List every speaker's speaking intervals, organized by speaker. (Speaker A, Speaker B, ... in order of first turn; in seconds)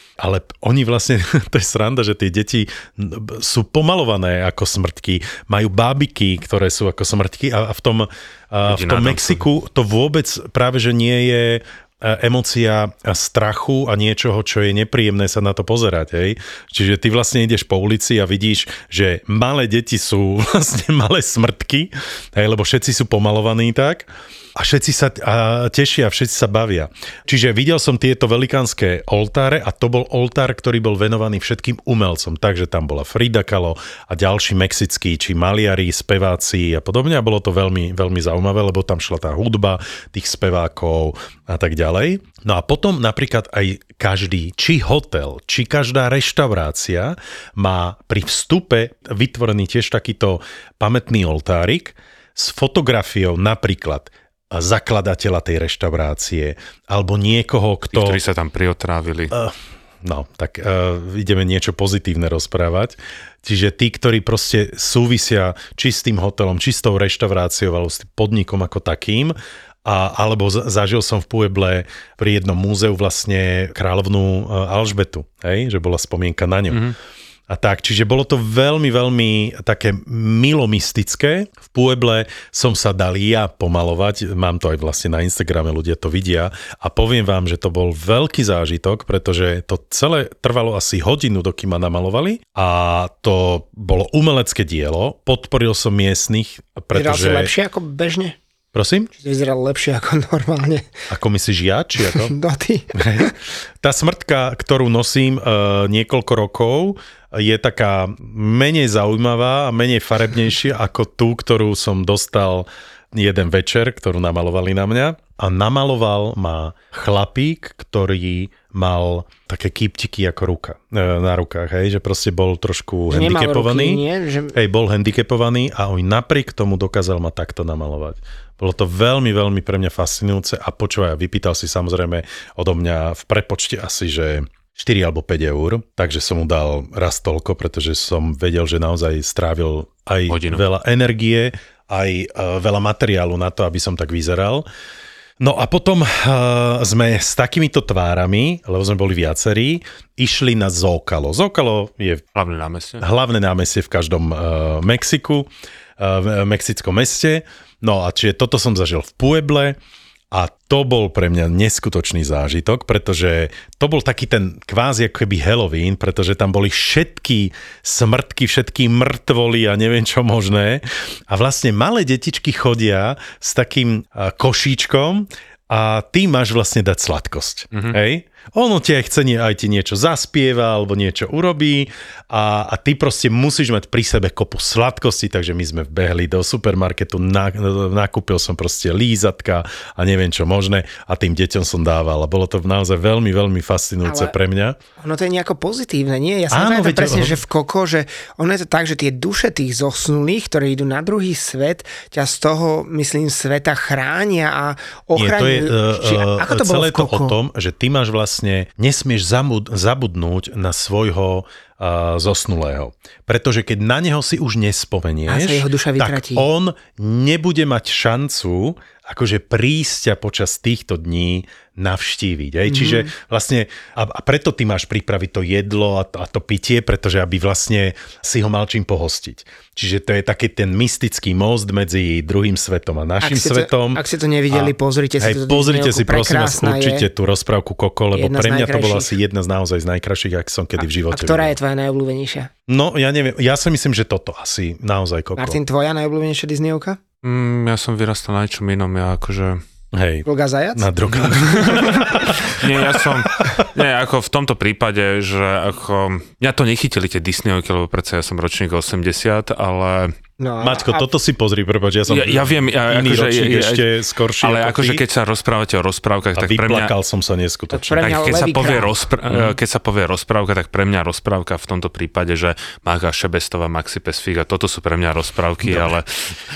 Speaker A: 0.2-58.2, 59.3-76.9, 77.5-97.5, 98.7-99.1, 101.1-102.3, 102.9-144.7, 145.4-152.2, 153.0-159.8, 160.3-194.8, 196.5-197.4, 205.1-241.5, 242.7-245.6, 249.9-253.7, 260.6-265.0, 266.4-268.0, 269.3-269.6, 275.6-275.9
Speaker B: 8.6-9.4, 57.9-59.3, 140.3-140.6, 152.3-153.0, 247.2-249.6, 251.2-260.1, 262.1-263.9, 264.4-266.9, 268.0-276.3
Speaker C: 96.9-98.4, 99.2-100.9, 102.2-103.3, 123.1-124.5, 194.0-194.3, 195.0-207.4, 215.3-216.4, 222.7-223.1, 233.2-237.1, 238.1-239.1, 240.8-242.5, 245.3-247.0, 250.2-250.9, 260.4-261.1, 267.7-268.9